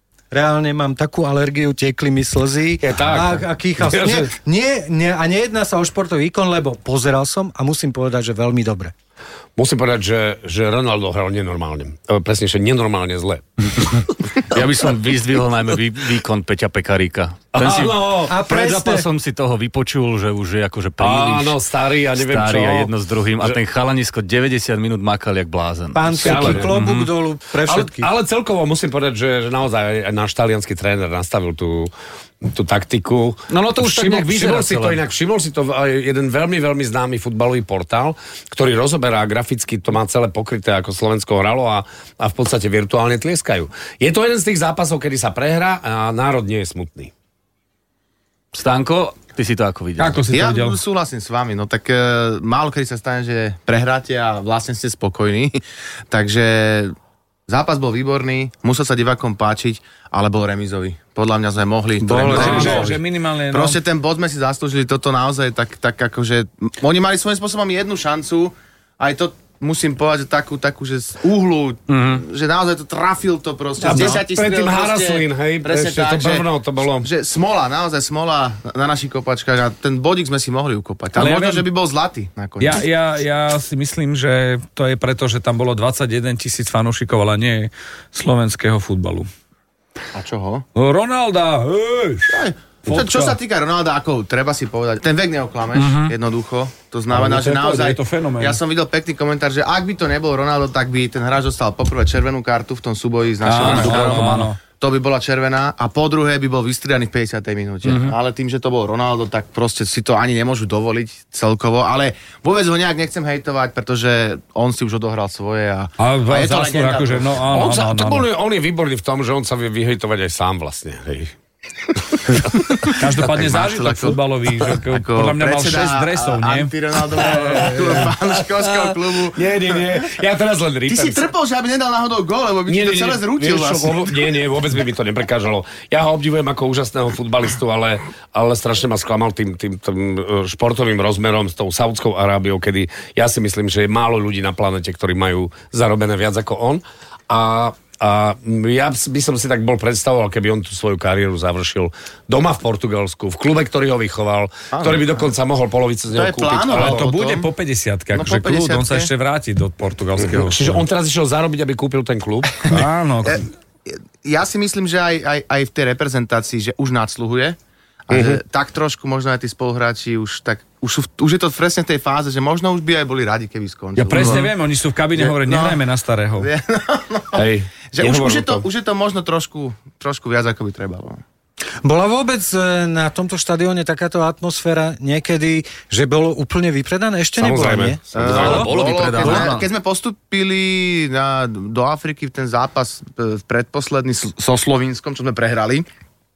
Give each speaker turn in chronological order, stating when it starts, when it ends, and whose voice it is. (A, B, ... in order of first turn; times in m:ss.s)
0:00.3-0:08.9 A
0:02.8-0:04.3 B
0:09.6-0:14.1 B
0:14.4-0:21.6 C
0:17.5-0:18.3 B
0:18.3-0:19.1 A
0:21.0-0:23.6 B
0:22.2-0:27.1 C
0:25.9-0:28.1 A
0:26.2-0:26.8 B
0:27.6-0:31.9 B
0:32.4-0:47.1 B
0:33.5-0:35.0 C
0:48.5-0:50.2 C
0:50.0-0:50.8 D
0:50.3-0:56.9 E
0:57.5-1:22.8 E
1:02.0-1:03.0 A
1:02.1-1:03.8 D
1:11.9-1:12.2 C
1:13.8-1:17.1 B
1:21.1-1:21.6 D
1:22.6-1:29.3 D
1:30.1-1:30.6 E
1:30.8-1:33.3 D
1:32.3-1:57.3 E
1:35.8-1:36.1 C
1:37.1-1:38.6 D
1:43.4-1:44.6 D
1:43.6-1:44.5 B
1:43.6-1:44.4 C
1:47.8-1:48.1 C
1:56.0-1:58.2 D
1:57.5-2:01.3 B
2:02.1-2:02.9 B
2:02.9-2:06.7 D
2:03.2-2:04.2 E
2:04.9-2:10.1 E
2:07.3-2:08.0 D
2:07.3-2:11.3 B
2:10.9-2:14.3 E
2:12.7-2:37.1 B
2:34.7-2:35.2 E
2:36.1-2:37.5 E
2:36.7-2:40.8 D
2:38.1-2:39.1 E
2:40.2-2:42.7 B
2:42.6-2:43.5 D
2:43.2-2:47.6 E
2:48.1-2:54.5 E
2:48.1-2:48.4 B
2:54.0-2:56.5 D
2:55.2-2:55.8 E
2:56.4-3:01.2 E
2:57.3-2:58.6 B
3:01.8-3:08.5 A
3:07.4-3:09.5 B
3:08.1-3:15.9 E
3:08.2-3:09.7 C